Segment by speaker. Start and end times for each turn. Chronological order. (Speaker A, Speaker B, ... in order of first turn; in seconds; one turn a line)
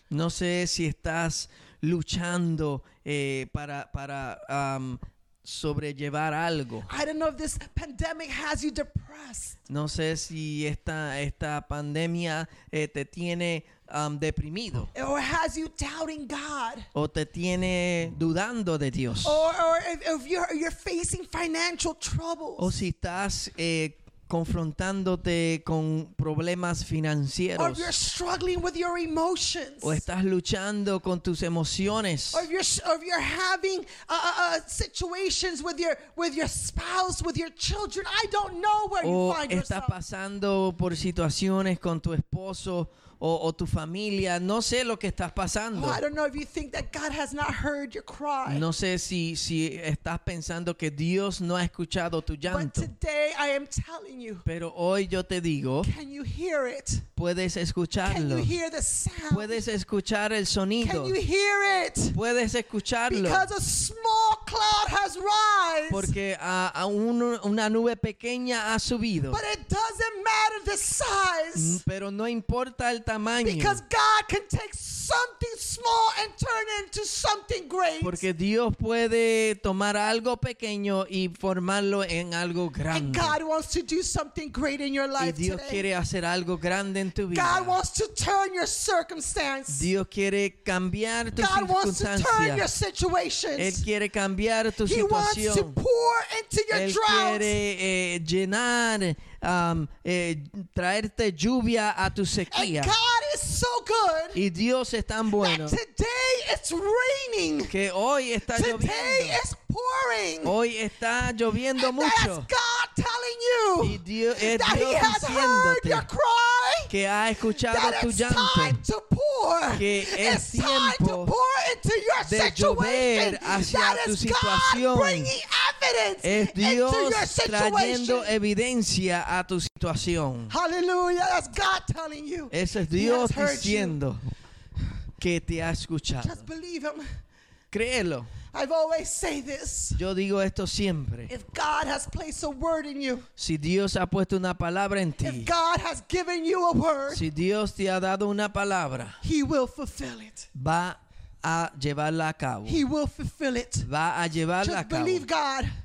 Speaker A: 0.1-6.9
Speaker B: 6.9-9.6
Speaker A: 9.7-14.9
Speaker B: 14.9-16.9
Speaker A: 16.9-19.5
Speaker B: 19.2-22.7
Speaker A: 22.6-27.9
Speaker B: 27.6-30.0
Speaker A: 29.8-32.5
Speaker B: 32.3-40.0
Speaker A: 39.0-46.0
Speaker B: 45.7-48.7
Speaker A: 48.5-52.9
Speaker B: 52.5-54.5
Speaker A: 54.5-55.9
Speaker B: 55.8-57.1
Speaker A: 57.2-58.5
Speaker B: 58.0-59.6
Speaker A: 59.3-61.2
Speaker B: 60.8-62.2
Speaker A: 62.1-63.5
Speaker B: 63.1-66.2
Speaker A: 65.9-69.4
Speaker B: 69.3-71.8
Speaker A: 71.5-73.8
Speaker B: 73.4-78.3
Speaker A: 78.0-83.4
Speaker B: 82.9-85.9
Speaker A: 85.2-87.8
Speaker B: 87.3-89.9
Speaker A: 89.7-92.7
Speaker B: 91.3-93.8
Speaker A: 93.6-95.8
Speaker B: 94.8-97.6
Speaker A: 96.7-103.0
Speaker B: 102.5-104.4
Speaker A: 104.3-105.8
Speaker B: 105.3-107.7
Speaker A: 107.7-109.4
Speaker B: 108.5-110.6
Speaker A: 110.4-112.5
Speaker B: 111.8-116.9
Speaker A: 113.8-116.1
Speaker A: 116.9-118.8
Speaker B: 117.5-128.3
Speaker A: 119.7-121.3
Speaker A: 122.2-125.3
Speaker A: 126.2-130.5
Speaker B: 130.5-134.0
Speaker A: 132.5-134.2
Speaker A: 135.2-136.4
Speaker B: 136.2-137.1
Speaker A: 137.7-138.3
Speaker B: 138.5-140.0
Speaker A: 139.9-141.3
Speaker B: 141.3-143.3
Speaker A: 143.4-145.5
Speaker B: 145.2-147.3
Speaker A: 147.1-149.2
Speaker B: 149.2-150.5
Speaker A: 150.6-152.8
Speaker B: 152.7-153.9
Speaker A: 153.8-155.3
Speaker B: 154.6-155.7